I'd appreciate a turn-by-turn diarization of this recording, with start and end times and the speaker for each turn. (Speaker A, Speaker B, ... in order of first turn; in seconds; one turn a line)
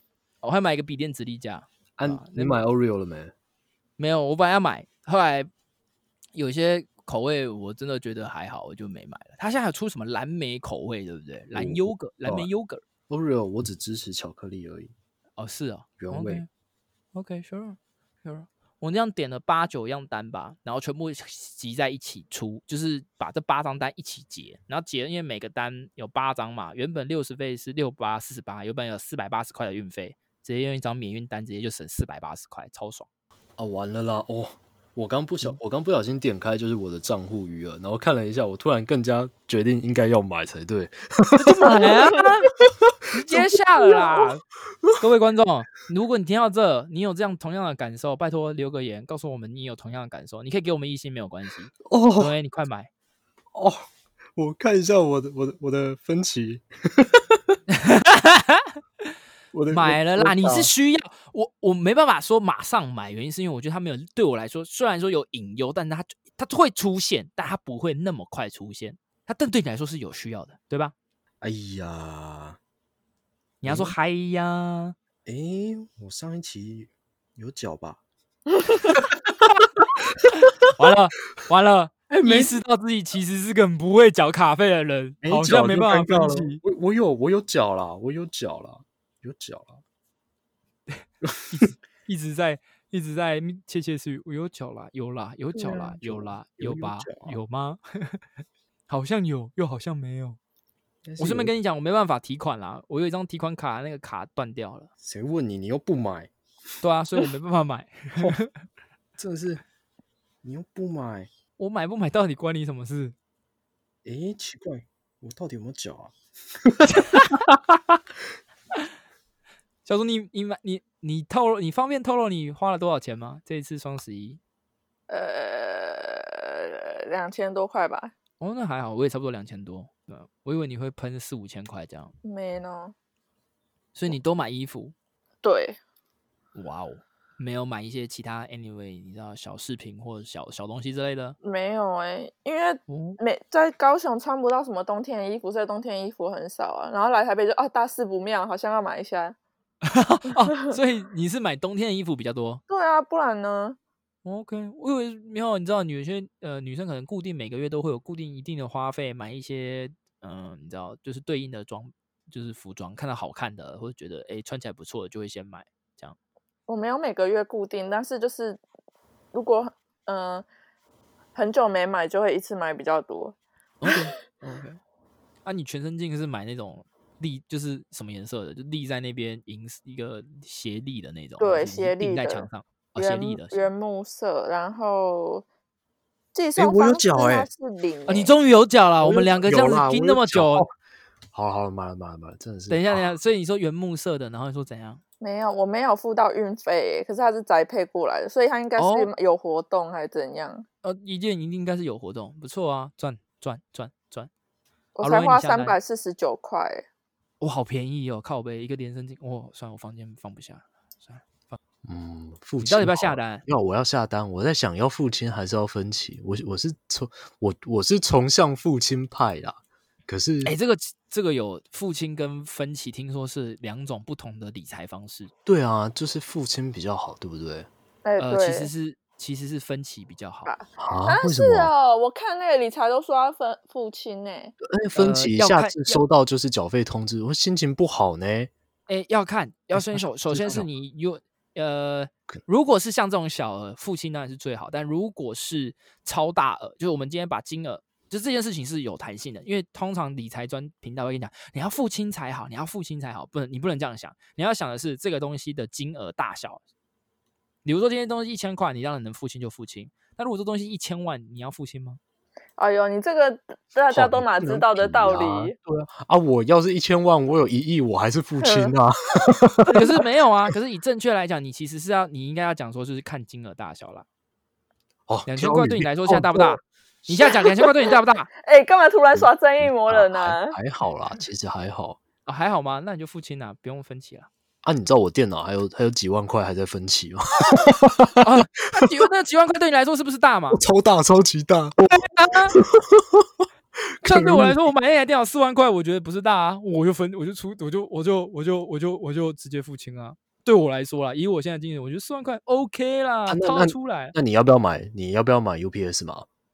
Speaker A: 0.4-2.6
Speaker B: 2.0-3.3
Speaker A: 4.0-5.5
Speaker A: 6.3-12.8
Speaker B: 11.5-12.5
Speaker B: 13.1-14.9
Speaker A: 15.4-16.5
Speaker B: 16.0-16.4
Speaker A: 17.1-33.1
Speaker B: 33.6-44.2
Speaker A: 41.3-42.5
Speaker A: 43.1-44.4
Speaker A: 45.0-52.9
Speaker B: 51.8-52.3
Speaker B: 53.5-53.8
Speaker B: 54.4-57.5
Speaker A: 57.7-58.7
Speaker B: 59.5-60.7
Speaker A: 59.7-70.9
Speaker B: 71.4-72.6
Speaker A: 73.6-74.9
Speaker B: 73.6-73.9
Speaker B: 75.2-78.0
Speaker B: 79.0-79.3
Speaker A: 80.7-86.6
Speaker B: 82.1-82.6
Speaker B: 85.2-89.8
Speaker A: 91.0-98.2
Speaker C: 95.6-96.0
Speaker B: 96.0-97.4
Speaker A: 98.9-100.4
Speaker B: 101.0-101.5
Speaker A: 101.2-104.9
Speaker B: 105.0-106.3
Speaker A: 106.8-108.5
Speaker B: 109.2-109.6
Speaker B: 110.4-111.3
Speaker A: 111.6-113.1
Speaker B: 114.0-117.6
Speaker A: 116.9-117.4
Speaker A: 119.8-124.4
Speaker C: 125.1-128.1
Speaker A: 128.4-132.1
Speaker C: 132.2-132.9
Speaker A: 133.9-134.9
Speaker C: 135.4-135.8
Speaker A: 136.5-141.4
Speaker C: 141.4-149.3
Speaker A: 142.9-143.2
Speaker A: 149.8-152.6
Speaker C: 152.7-153.8
Speaker A: 154.2-166.2
Speaker C: 166.7-168.6
Speaker C: 169.3-170.4
Speaker C: 171.3-173.3
Speaker A: 173.8-174.8
Speaker A: 175.4-183.6
Speaker C: 181.4-185.4
Speaker C: 186.3-188.3
Speaker B: 186.6-187.5
Speaker A: 188.1-190.7
Speaker B: 189.0-190.7
Speaker B: 191.3-193.1
Speaker A: 192.7-195.0
Speaker C: 195.2-200.6
Speaker A: 198.8-199.1
Speaker A: 200.8-204.3
Speaker C: 204.9-206.8
Speaker A: 205.0-205.8
Speaker A: 207.4-211.6
Speaker B: 211.8-220.5
Speaker A: 212.6-213.4
Speaker A: 220.4-225.3
Speaker B: 225.4-227.7
Speaker C: 228.0-228.7
Speaker A: 228.2-230.5
Speaker C: 230.4-234.5
Speaker B: 230.8-231.7
Speaker B: 234.6-238.5
Speaker A: 234.9-236.0
Speaker A: 238.9-256.6
Speaker B: 239.7-240.6
Speaker A: 257.6-262.0
Speaker C: 262.6-265.6
Speaker B: 263.9-269.9
Speaker C: 268.4-268.7
Speaker A: 269.6-274.1
Speaker B: 275.1-277.3
Speaker A: 275.2-278.3
Speaker C: 278.4-280.6
Speaker B: 279.1-282.0
Speaker A: 282.2-284.3
Speaker B: 284.6-288.9
Speaker A: 288.2-290.6
Speaker B: 290.5-291.9
Speaker A: 291.8-292.6
Speaker B: 292.5-293.4
Speaker B: 294.0-294.6
Speaker A: 294.0-304.1
Speaker B: 303.3-306.3